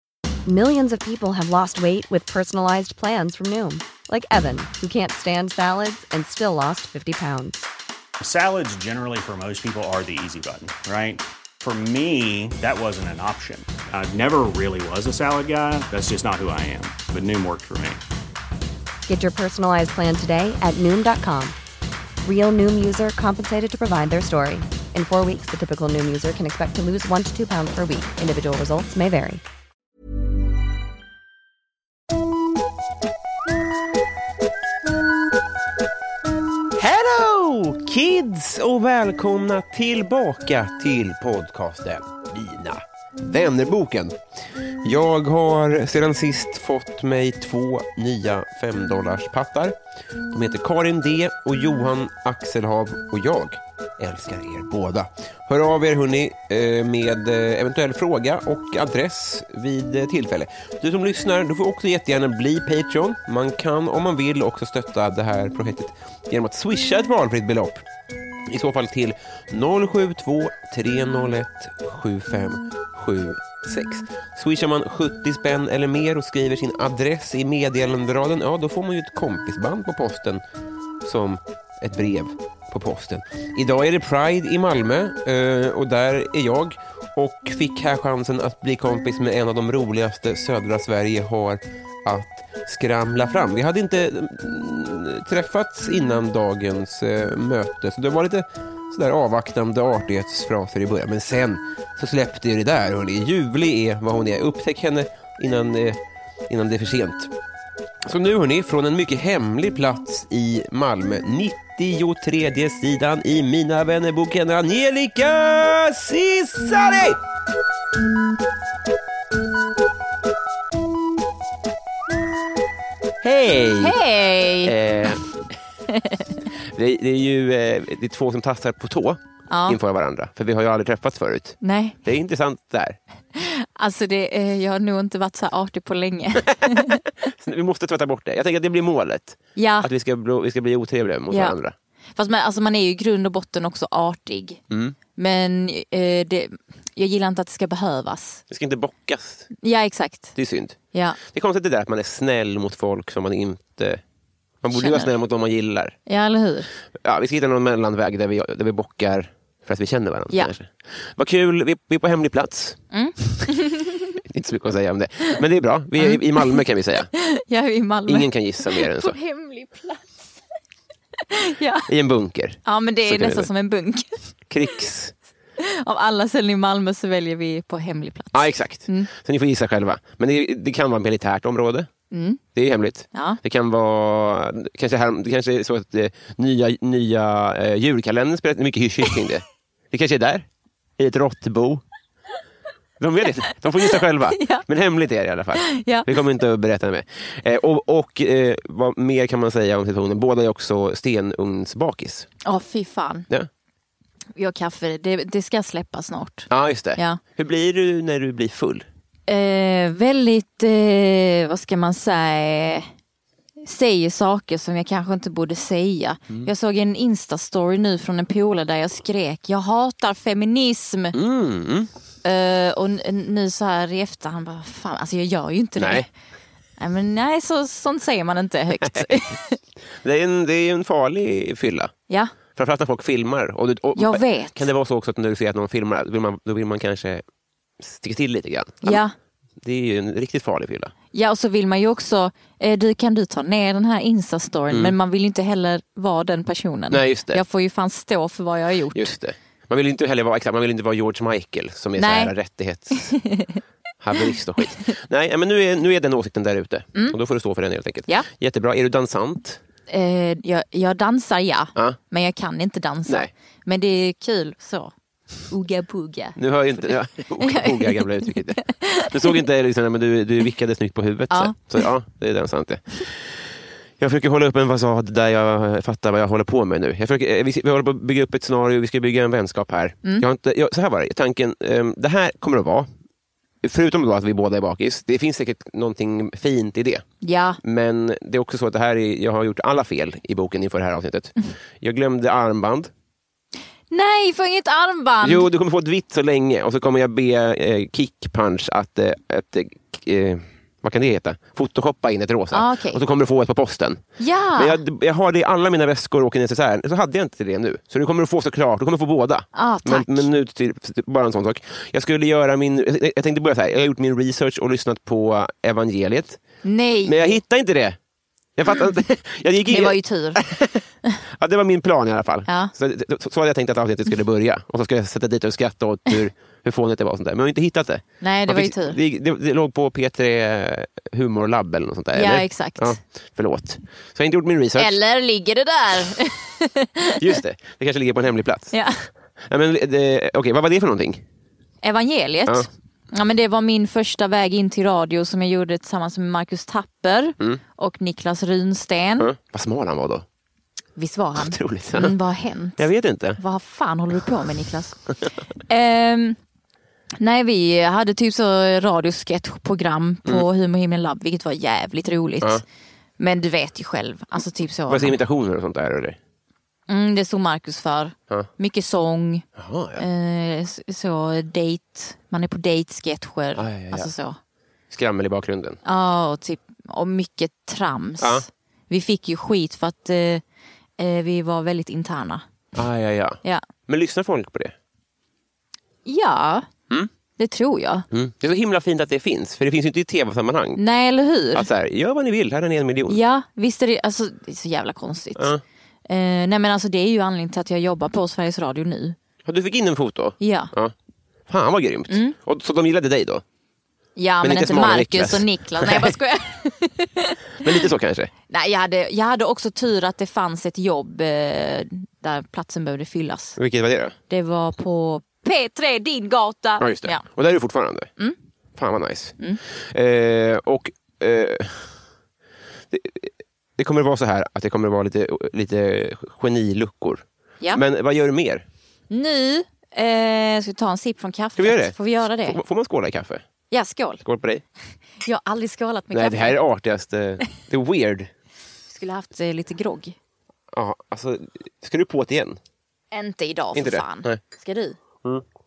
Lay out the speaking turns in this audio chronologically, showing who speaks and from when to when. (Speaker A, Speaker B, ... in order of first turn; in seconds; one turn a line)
Speaker A: 0.5-7.7
Speaker B: 8.2-18.0
Speaker A: 19.1-21.6
Speaker A: 22.2-29.4
Speaker C: 36.8-44.2
Speaker C: 44.8-49.8
Speaker C: 50.3-67.8
Speaker C: 68.5-80.4
Speaker C: 81.0-107.3
Speaker C: 108.0-117.2
Speaker C: 123.2-124.0
Speaker D: 123.8-124.8
Speaker C: 124.6-125.2
Speaker D: 125.9-126.2
Speaker C: 126.6-133.0
Speaker D: 129.5-129.8
Speaker D: 131.6-132.0
Speaker D: 133.3-137.0
Speaker C: 136.5-141.8
Speaker D: 139.6-139.9
Speaker D: 141.3-141.6
Speaker D: 142.2-144.6
Speaker C: 144.7-145.0
Speaker D: 145.2-148.4
Speaker C: 148.5-149.5
Speaker D: 149.6-150.3
Speaker C: 150.4-154.0
Speaker D: 150.9-151.2
Speaker C: 154.6-156.0
Speaker D: 154.7-155.1
Speaker D: 156.1-156.7
Speaker C: 157.0-162.8
Speaker D: 162.9-164.1
Speaker C: 164.2-167.1
Speaker D: 166.0-166.6
Speaker D: 167.2-170.1
Speaker C: 168.1-169.2
Speaker D: 171.3-171.9
Speaker C: 171.9-173.5
Speaker D: 172.7-174.1
Speaker C: 174.5-175.2
Speaker D: 175.6-179.1
Speaker C: 178.3-181.9
Speaker D: 182.1-182.4
Speaker C: 182.6-190.5
Speaker D: 183.1-183.4
Speaker C: 191.0-191.8
Speaker C: 193.0-202.3
Speaker D: 193.9-194.7
Speaker D: 195.6-196.1
Speaker D: 202.4-203.3
Speaker D: 204.4-207.2
Speaker C: 206.5-208.9
Speaker D: 209.3-212.9
Speaker D: 213.6-221.2
Speaker C: 221.1-221.9
Speaker D: 222.2-226.1
Speaker C: 225.8-226.1
Speaker D: 226.8-229.6
Speaker C: 228.8-229.1
Speaker C: 230.0-231.9
Speaker D: 232.1-232.3
Speaker C: 232.6-237.2
Speaker D: 234.0-234.7
Speaker C: 237.8-239.0
Speaker D: 238.8-239.1
Speaker C: 239.6-240.9
Speaker D: 241.1-249.1
Speaker C: 244.7-244.9
Speaker C: 246.9-247.4
Speaker C: 248.9-253.2
Speaker D: 252.0-252.3
Speaker D: 252.9-253.6
Speaker C: 254.0-259.6
Speaker D: 259.9-264.9
Speaker D: 265.5-266.4
Speaker C: 266.4-273.5
Speaker D: 266.9-269.4
Speaker D: 271.3-271.6
Speaker C: 274.0-282.9
Speaker C: 283.6-287.0
Speaker D: 287.2-287.6
Speaker C: 287.6-292.9
Speaker D: 293.9-295.5
Speaker C: 295.2-304.0
Speaker D: 302.5-303.0
Speaker D: 304.2-304.8
Speaker C: 304.6-316.4
Speaker D: 309.5-310.3
Speaker D: 316.6-317.4
Speaker C: 317.1-318.0
Speaker C: 318.6-335.0
Speaker D: 319.7-320.4
Speaker D: 322.5-322.7
Speaker D: 328.2-329.0
Speaker D: 332.1-333.0
Speaker D: 334.8-337.4
Speaker C: 337.2-338.7
Speaker C: 339.4-341.2
Speaker D: 341.8-349.3
Speaker C: 349.2-350.2
Speaker D: 351.0-355.0
Speaker C: 351.4-352.1
Speaker C: 352.8-353.4
Speaker D: 355.7-356.4
Speaker D: 357.2-362.6
Speaker D: 363.2-365.2
Speaker C: 364.9-366.2
Speaker D: 366.9-369.5
Speaker C: 369.6-370.1
Speaker D: 370.0-374.4
Speaker C: 373.6-374.1
Speaker C: 374.9-375.8
Speaker D: 375.9-380.4
Speaker D: 381.0-382.4
Speaker C: 382.8-384.8
Speaker D: 386.1-386.7
Speaker D: 387.4-388.1
Speaker C: 388.1-390.8
Speaker D: 390.8-391.7
Speaker C: 391.5-393.2
Speaker D: 393.1-395.5
Speaker C: 395.4-395.6
Speaker D: 396.1-399.2
Speaker C: 399.4-400.9
Speaker D: 400.4-400.7
Speaker C: 401.5-403.4
Speaker D: 402.1-402.4
Speaker D: 404.2-407.8
Speaker C: 404.4-406.1
Speaker C: 407.6-408.3
Speaker D: 408.5-413.6
Speaker C: 413.6-414.2
Speaker D: 414.3-417.2
Speaker C: 416.8-418.1
Speaker C: 418.8-419.4
Speaker C: 419.9-421.9
Speaker C: 422.9-428.6
Speaker D: 429.1-432.6
Speaker C: 431.6-433.4
Speaker D: 433.7-434.2
Speaker C: 434.2-434.6
Speaker D: 435.2-436.6
Speaker C: 436.1-438.3
Speaker D: 438.9-440.2
Speaker C: 440.7-442.6
Speaker D: 443.1-445.0
Speaker C: 443.8-444.4